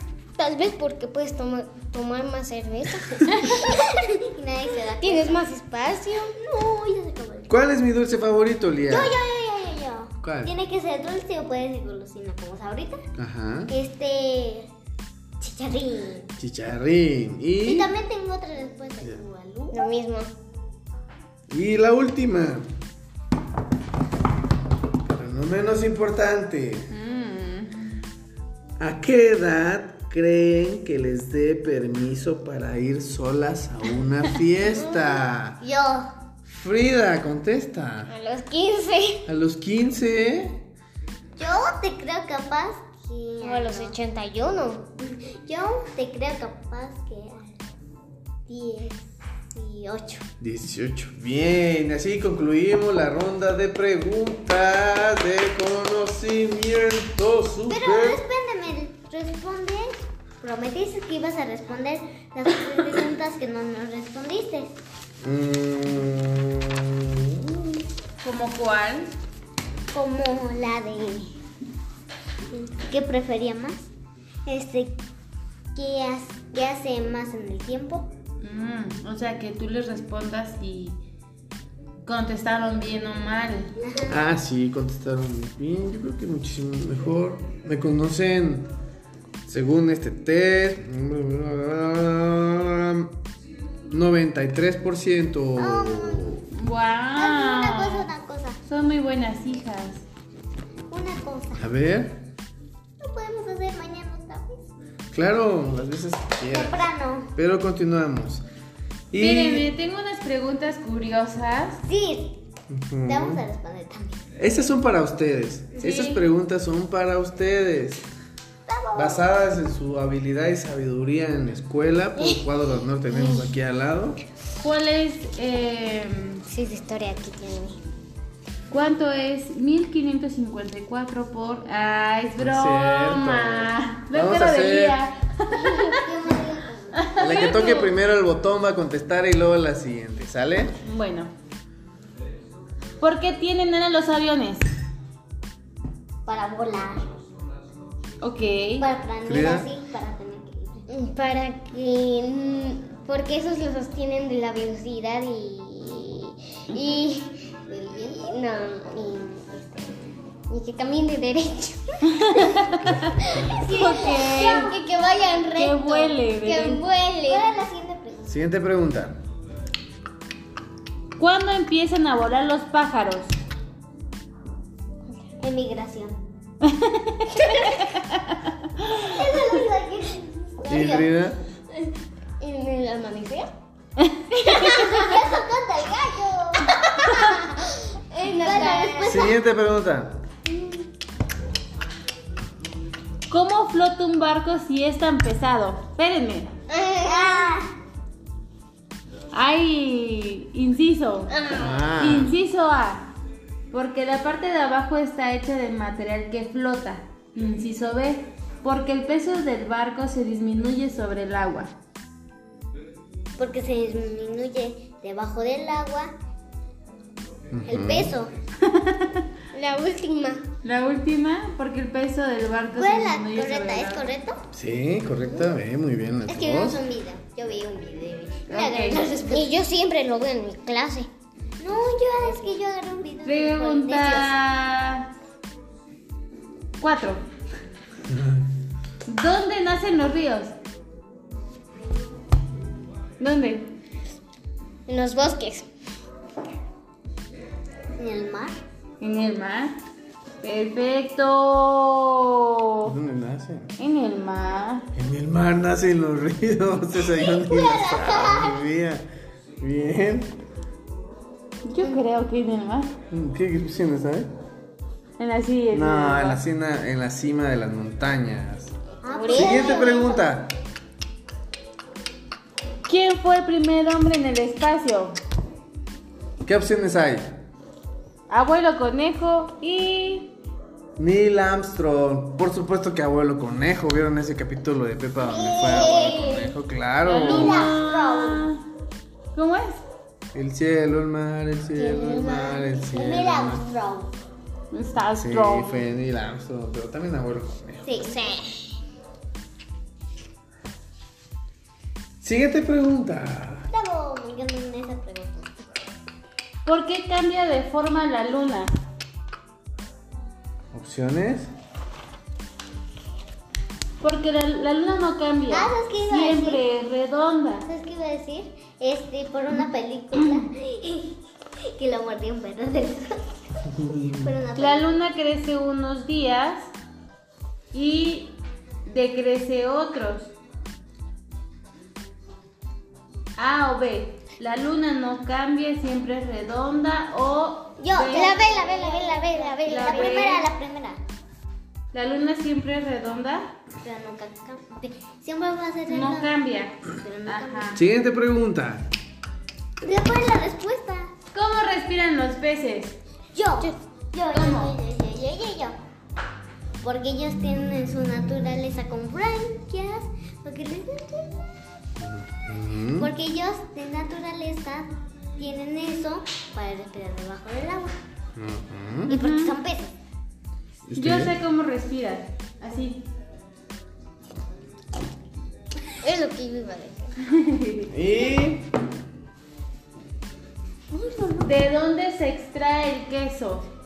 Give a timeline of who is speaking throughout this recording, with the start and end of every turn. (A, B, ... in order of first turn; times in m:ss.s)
0:00.4-0:04.0 A
0:03.3-0:03.6 B
0:03.6-0:05.4 C
0:05.0-0:06.4 A
0:06.4-0:07.5 C
0:07.5-0:09.1 D
0:08.9-0:13.0 C
0:10.2-0:10.5 D
0:13.2-0:13.7 D
0:13.7-0:14.7 C
0:15.4-0:16.3 C
0:16.4-0:17.9 D
0:17.6-0:19.9 C
0:19.7-0:20.3 A
0:21.5-0:22.7 D
0:25.0-0:26.9 D
0:26.9-0:28.0 B
0:28.8-0:35.6 D
0:34.8-0:36.1 C
0:36.4-0:38.1 D
0:38.1-0:39.2 A
0:39.3-0:40.6 D
0:41.4-0:43.9 C
0:43.4-0:44.9 A
0:45.0-0:47.6 C
0:48.5-0:50.2 C
0:50.4-0:58.2 D
0:57.7-1:04.8 C
1:05.2-1:07.8 D
1:08.2-1:09.1 B
1:09.9-1:11.4 C
1:12.5-1:13.9 C
1:14.4-1:15.0 C
1:15.8-1:18.1 C
1:18.4-1:21.0 B
1:22.0-1:23.7 B
1:23.8-1:24.2 C
1:24.1-1:28.7 D
1:29.4-1:33.1 D
1:33.9-1:36.4 D
1:35.6-1:36.3 C
1:36.5-1:38.1 B
1:37.2-1:38.6 C
1:38.6-1:40.0 B
1:40.9-1:41.7 C
1:41.6-1:42.2 D
1:43.0-1:44.7 C
1:45.1-1:48.4 D
1:46.5-1:47.3 C
1:49.1-1:49.7 D
1:49.1-1:51.8 B
1:51.8-1:52.4 C
1:52.7-1:53.4 D
1:53.1-1:54.2 C
1:54.4-1:58.1 D
1:55.8-1:56.2 B
1:58.7-1:59.2 C
1:58.9-2:04.2 D
2:03.1-2:03.4 A
2:04.6-2:06.4 B
2:06.5-2:07.8 A
2:08.7-2:16.0 B
2:12.4-2:15.0 D
2:15.5-2:17.3 C
2:17.0-2:17.9 B
2:17.2-2:20.8 D
2:20.8-2:21.3 B
2:23.0-2:24.7 B
2:26.2-2:27.1 C
2:28.2-2:28.9 B
2:28.8-2:30.8 C
2:29.2-2:29.7 D
2:30.9-2:47.5 A
2:42.0-2:44.7 B
2:43.3-2:45.7 C
2:45.6-2:46.8 B
2:47.2-2:48.4 C
2:48.3-2:49.2 D
2:51.2-2:53.4 B
2:55.4-2:56.2 C
2:56.6-2:58.5 B
2:57.5-2:57.8 C
2:58.9-3:01.1 C
3:00.7-3:01.4 D
3:02.4-3:03.5 A
3:04.0-3:04.7 B
3:04.4-3:07.6 C
3:04.7-3:05.2 A
3:08.1-3:09.4 A
3:08.2-3:09.4 C
3:09.0-3:10.2 D
3:13.3-3:16.5 B
3:16.7-3:17.5 A
3:17.0-3:17.7 C
3:19.3-3:21.3 B
3:21.3-3:21.8 A
3:21.5-3:22.4 D
3:22.0-3:23.1 B
3:23.7-3:31.7 B
3:33.4-3:36.2 C
3:37.5-3:38.1 D
3:37.6-3:38.3 C
3:38.6-3:39.2 B
3:39.5-3:40.4 A
3:40.6-3:44.1 B
3:42.8-3:44.4 C
3:44.5-3:46.8 D
3:46.3-3:49.5 C
3:48.5-3:49.0 B
3:49.3-3:51.1 A
3:51.6-3:54.3 C
3:53.2-3:55.1 B
3:56.8-3:57.2 B
3:58.1-3:58.4 D
3:59.1-4:00.5 B
4:03.2-4:03.7 B
4:04.9-4:05.7 A
4:08.0-4:08.6 C
4:09.0-4:09.8 B
4:10.4-4:12.9 B
4:12.8-4:13.7 D
4:13.8-4:14.9 B
4:14.9-4:19.1 D
4:17.0-4:18.6 C
4:19.6-4:20.4 D
4:21.6-4:22.9 B
4:23.1-4:24.3 D
4:25.2-4:26.4 B
4:25.7-4:28.7 D
4:29.0-4:30.3 C
4:29.1-4:29.6 B
4:29.2-4:29.7 A
4:29.3-4:30.5 D
4:32.9-4:35.2 B
4:36.4-4:37.4 D
4:38.3-4:40.3 B
4:41.0-4:47.7 D
4:45.2-4:46.5 C
4:47.0-4:48.6 B
4:47.1-4:48.5 C
4:49.4-4:49.8 B
4:50.3-4:53.6 D
4:51.8-4:54.1 C
4:54.7-4:55.8 B
4:55.1-4:57.9 D
4:57.8-4:58.7 C
5:02.2-5:03.7 D
5:03.7-5:05.6 C
5:06.6-5:08.7 B
5:10.7-5:11.5 D
5:14.0-5:17.7 B
5:15.5-5:16.6 C
5:17.6-5:21.2 C
5:21.7-5:23.2 C
5:23.7-5:24.3 D
5:24.1-5:24.9 C
5:24.6-5:26.7 B
5:27.7-5:30.3 B
5:33.4-5:38.8 B
5:37.8-5:41.0 C
5:38.1-5:40.4 A
5:39.6-5:40.5 B
5:41.9-5:43.5 B
5:43.8-5:46.3 C
5:45.9-5:47.8 B
5:46.9-5:47.8 C
5:47.8-5:48.9 D
5:49.8-5:51.1 C
5:51.3-5:53.0 B
5:53.3-5:55.8 C
5:54.3-5:54.8 B
5:56.8-6:01.4 C
6:02.0-6:03.1 D
6:03.0-6:08.0 C
6:08.4-6:09.2 D
6:09.1-6:09.6 B
6:09.1-6:09.9 C
6:10.9-6:11.3 D
6:10.9-6:13.1 B
6:16.0-6:17.1 A
6:17.2-6:17.9 B
6:17.9-6:18.7 D
6:20.9-6:21.4 C
6:21.4-6:23.7 B